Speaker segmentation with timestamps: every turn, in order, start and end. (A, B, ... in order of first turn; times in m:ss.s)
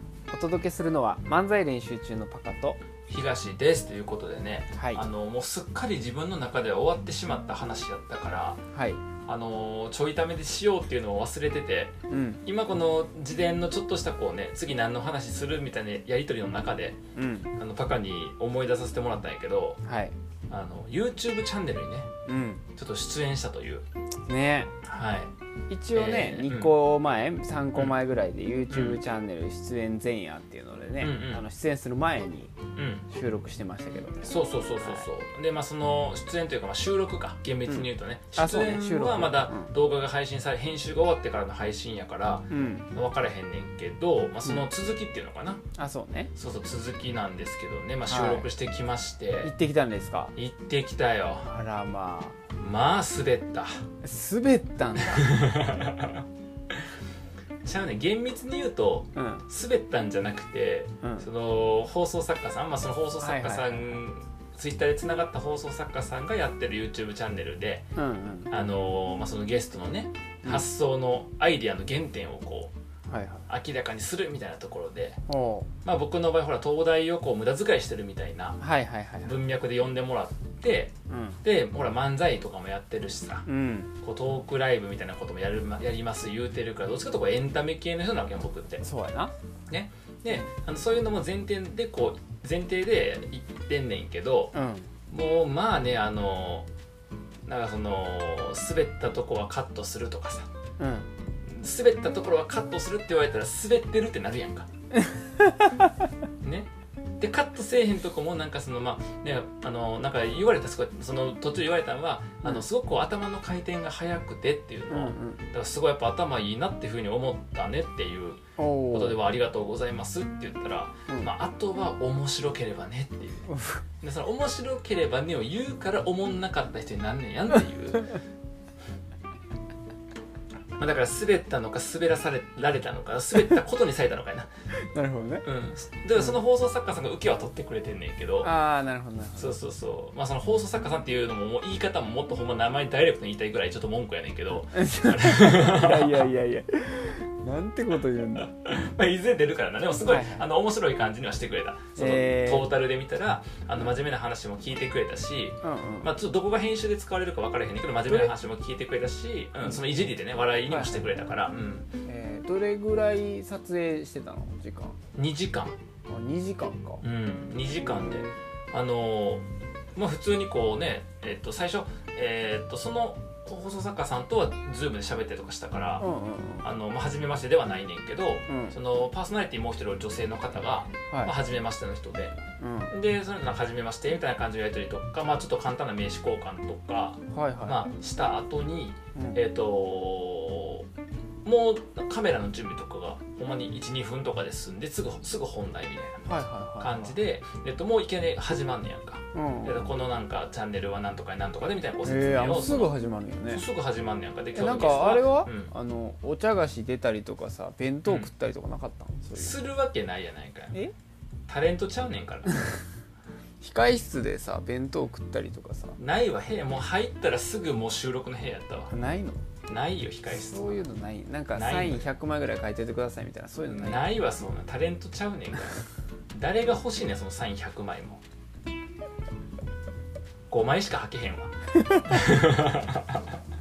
0:00.3-0:02.8 A
0:03.1-0:08.6 B
0:04.7-0:05.0 A
0:08.7-0:09.0 A
0:09.2-0:11.9 B
0:12.1-0:12.4 A
0:12.4-0:17.0 B
0:17.1-0:17.5 A
0:17.6-0:19.8 B
0:19.8-0:20.1 A
0:20.5-0:22.1 B
0:22.3-0:22.6 A
0:22.8-0:23.8 B
0:24.3-0:24.7 A
0:24.8-0:25.3 B
0:25.7-0:32.5 A
0:25.9-0:26.7 B
0:28.7-0:29.0 B
0:31.0-0:31.4 B
0:32.8-0:33.1 B
0:33.1-0:35.1 A
0:34.2-0:45.6 B
0:37.7-0:39.7 A
0:42.5-0:42.9 A
0:45.8-0:46.3 A
0:46.3-0:49.5 B
0:48.1-0:48.5 A
0:49.4-0:50.3 A
0:50.4-0:51.5 B
0:51.4-0:52.4 A
0:52.5-0:53.8 B
0:54.0-0:55.4 A
0:55.0-0:56.2 B
0:57.6-1:07.9 B
0:59.2-0:59.4 A
1:01.0-1:01.3 A
1:03.2-1:04.0 A
1:08.0-1:08.5 A
1:08.5-1:12.7 B
1:13.1-1:13.4 A
1:13.5-1:15.2 B
1:15.3-1:15.7 A
1:15.8-1:18.6 B
1:18.6-1:19.4 A
1:19.2-1:23.4 B
1:21.1-1:21.4 A
1:23.5-1:23.9 A
1:24.0-1:28.8 B
1:28.8-1:29.3 A
1:29.7-1:34.5 B
1:34.5-1:34.9 A
1:35.1-1:36.7 B
1:37.4-1:40.5 B
1:40.8-1:41.1 A
1:41.4-1:44.7 B
1:45.0-1:45.9 A
1:46.4-1:58.4 B
1:54.9-1:55.4 A
1:58.6-1:59.2 A
1:58.9-2:03.5 B
2:03.5-2:03.8 A
2:04.0-2:08.1 B
2:10.8-2:14.5 B
2:14.9-2:15.4 A
2:15.4-2:18.5 B
2:18.4-2:19.6 A
2:19.4-2:26.3 B
2:24.6-2:28.5 A
2:28.4-2:41.9 B
2:30.0-2:30.5 A
2:32.0-2:32.7 A
2:35.6-2:36.1 A
2:38.1-2:38.3 A
2:40.6-2:41.1 A
2:42.0-2:45.0 A
2:45.1-2:45.8 B
2:46.1-2:47.0 A
2:47.0-2:56.0 B
2:47.8-2:48.3 A
2:56.0-2:56.7 A
2:56.6-3:02.4 B
2:58.5-2:58.8 A
3:01.1-3:01.3 A
3:02.6-3:02.9 A
3:02.9-3:10.9 B
3:07.3-3:07.8 A
3:09.1-3:09.4 A
3:11.4-3:22.9 B
3:16.2-3:17.2 A
3:19.3-3:19.9 A
3:22.0-3:23.6 A
3:23.5-3:25.7 B
3:24.5-3:29.6 A
3:28.0-3:28.3 B
3:29.3-3:30.8 B
3:31.5-3:32.5 B
3:33.6-3:36.0 A
3:36.0-3:38.9 B
3:38.9-3:39.4 A
3:39.7-3:40.9 B
3:40.3-3:44.1 A
3:41.5-3:42.1 B
3:43.6-3:48.2 B
3:50.5-3:51.5 B
3:51.8-3:52.4 A
3:52.1-3:53.2 B